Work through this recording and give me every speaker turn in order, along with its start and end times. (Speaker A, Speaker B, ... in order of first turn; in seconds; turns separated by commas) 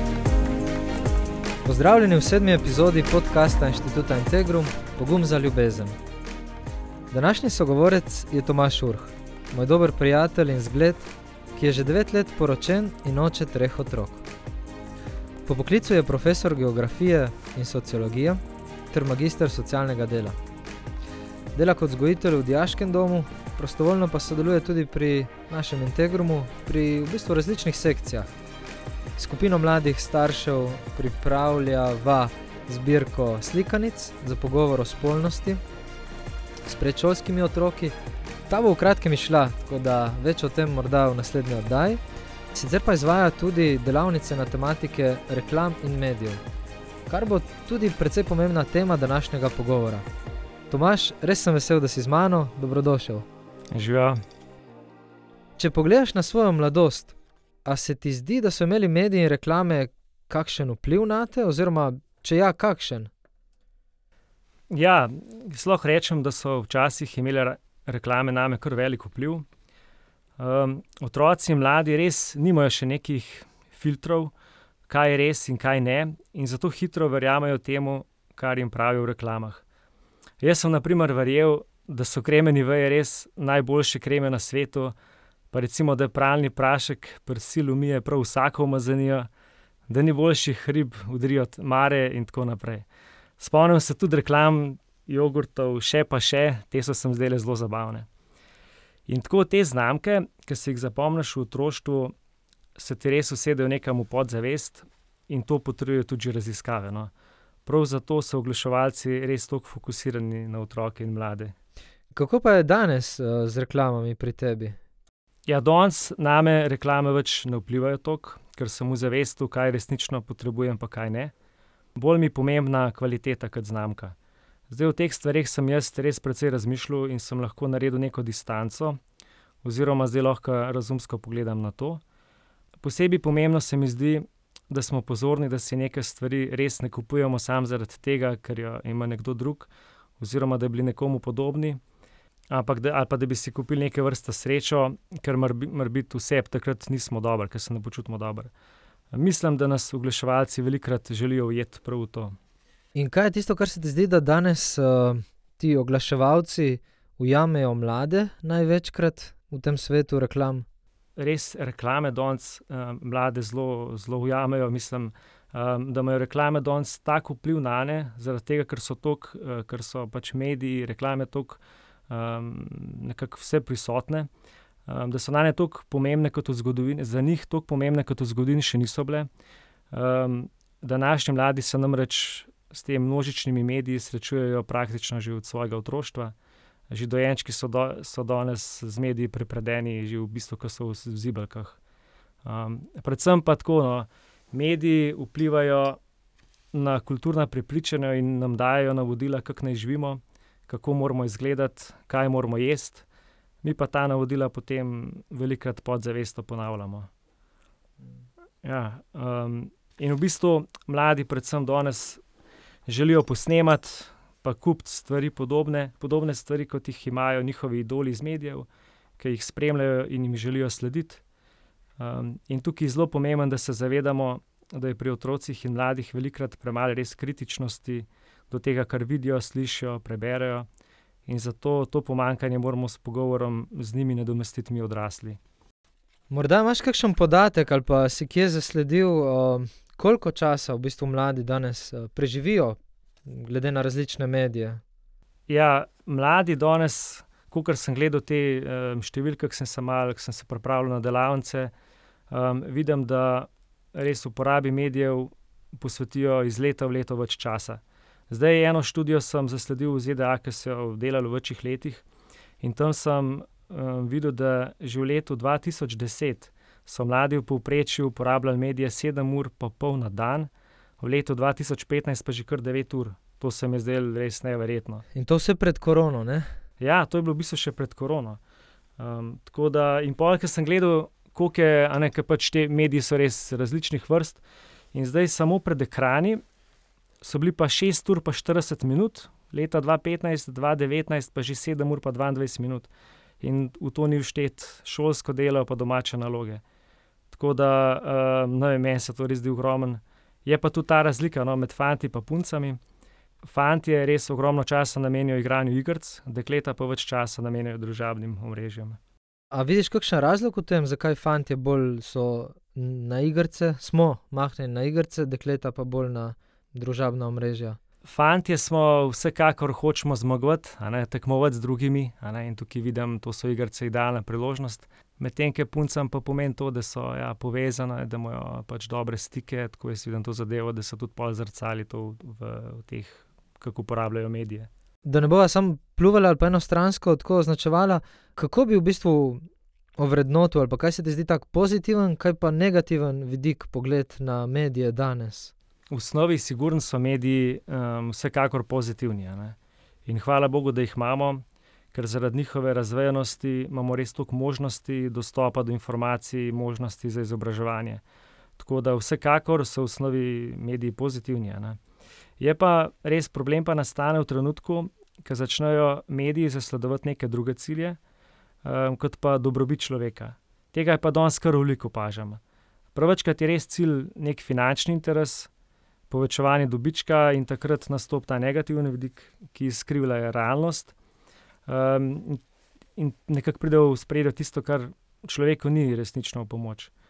Speaker A: 1.6-6.0, Speaker A: 7.1-14.2, Speaker A: 15.5-18.4, Speaker A: 18.9-20.4, Speaker A: 21.6-28.3, Speaker A: 29.2-35.6, Speaker A: 36.7-38.0, Speaker A: 38.5-46.4, Speaker A: 47.1-50.1, Speaker A: 50.7-53.3, Speaker B: 53.7-54.2, Speaker A: 55.6-63.1, Speaker B: 64.7-69.5, Speaker B: 70.4-74.3, Speaker B: 74.9-79.6, Speaker B: 80.4-85.0, Speaker B: 85.5-89.3, Speaker B: 89.9-92.8, Speaker B: 93.4-98.1, Speaker B: 99.1-102.2, Speaker B: 102.8-107.1, Speaker B: 107.7-111.5, Speaker A: 112.1-114.8, Speaker B: 115.5-121.3, Speaker B: 122.0-124.2, Speaker B: 124.7-129.0, Speaker B: 129.6-132.0, Speaker B: 132.8-141.8, Speaker B: 142.5-148.5, Speaker B: 149.1-152.4, Speaker A: 152.9-160.7, Speaker B: 161.2-174.3, Speaker B: 174.9-179.3, Speaker B: 179.9-186.3, Speaker B: 186.9-191.8, Speaker B: 192.4-196.0, Speaker B: 196.7-203.1, Speaker B: 203.6-207.1, Speaker B: 208.6-212.2, Speaker B: 212.9-218.7, Speaker B: 219.2-221.2, Speaker B: 222.0-230.7, Speaker B: 231.3-235.4, Speaker A: 236.3-244.8, Speaker B: 245.5-251.7, Speaker B: 252.3-262.0, Speaker B: 262.6-275.0, Speaker A: 275.1-276.5, Speaker B: 276.8-278.4, Speaker B: 279.0-284.4, Speaker B: 284.9-286.4, Speaker B: 287.2-292.9, Speaker B: 293.4-296.6, Speaker B: 297.3-302.8, Speaker B: 303.4-309.0, Speaker A: 309.5-317.8, Speaker B: 318.0-334.7, Speaker A: 335.1-339.4, Speaker A: 340.0-345.5, Speaker B: 345.9-358.0, Speaker B: 358.6-361.8, Speaker B: 362.4-368.0, Speaker B: 368.6-372.4, Speaker B: 372.9-375.5, Speaker B: 376.1-380.9, Speaker B: 381.7-382.4, Speaker B: 383.0-386.9